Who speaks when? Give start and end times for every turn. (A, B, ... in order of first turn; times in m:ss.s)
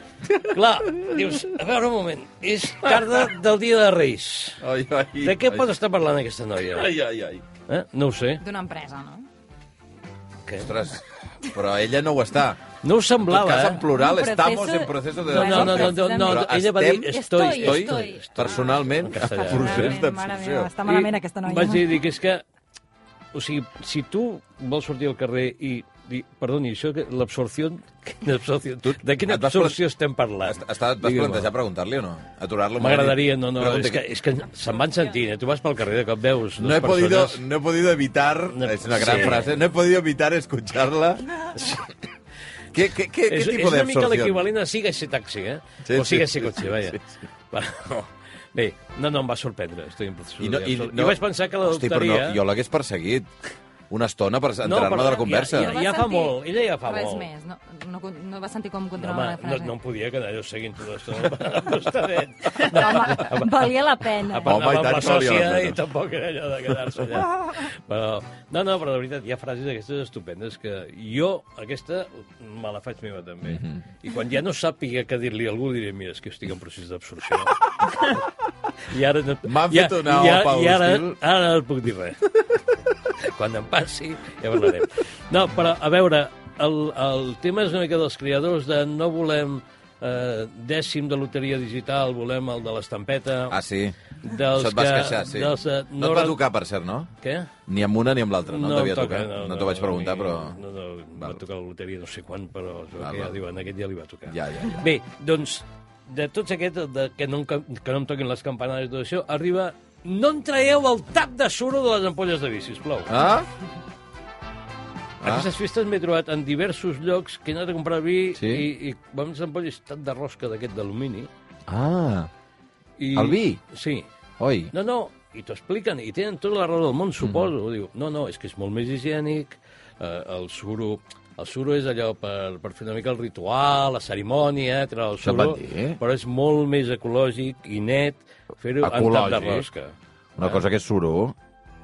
0:00.4-0:04.6 A
0:02.8-0:03.2 B
0:04.6-0:05.7 B
0:05.2-0:06.9 A
0:06.7-0:07.4 B
0:07.7-0:08.4 A
0:08.4-0:09.2 C
0:10.4-0:10.8 A
0:10.6-0:12.6 B
0:12.8-0:13.8 A
0:13.2-0:20.7 B
0:13.9-0:16.4 C
0:15.2-0:20.0 A
0:17.1-0:22.0 C
0:20.8-0:22.4 A
0:23.3-0:31.5 A
0:28.8-0:29.8 B
0:30.4-0:34.0 B
0:32.8-0:37.4 A
0:36.6-0:41.7 B
0:38.5-0:39.6 A
0:41.6-0:41.8 A
0:42.7-0:44.4 B
0:43.3-0:52.4 A
0:45.8-0:47.0 B
0:50.4-0:53.3 B
0:53.9-0:55.8 B
0:54.6-0:57.3 A
0:55.5-0:59.7 C
0:59.0-1:18.2 A
1:02.6-1:04.6 C
1:04.4-1:05.8 B
1:13.4-1:13.8 B
1:18.8-1:22.2 A
1:19.4-1:21.2 B
1:23.2-1:33.6 A
1:33.5-1:34.0 B
1:34.2-1:36.4 A
1:34.5-1:37.1 B
1:37.2-1:37.5 A
1:37.7-1:40.6 B
1:38.5-1:53.1 A
1:43.0-1:43.4 B
1:44.3-1:44.8 B
1:53.1-1:53.5 B
1:55.2-1:55.5 B
1:55.2-2:01.3 A
1:58.3-1:58.7 B
2:01.7-2:02.3 B
2:03.0-2:04.1 A
2:03.1-2:03.6 B
2:04.4-2:04.7 B
2:04.7-2:20.6 A
2:07.2-2:07.5 B
2:15.2-2:16.0 B
2:18.8-2:19.7 B
2:20.4-2:21.4 B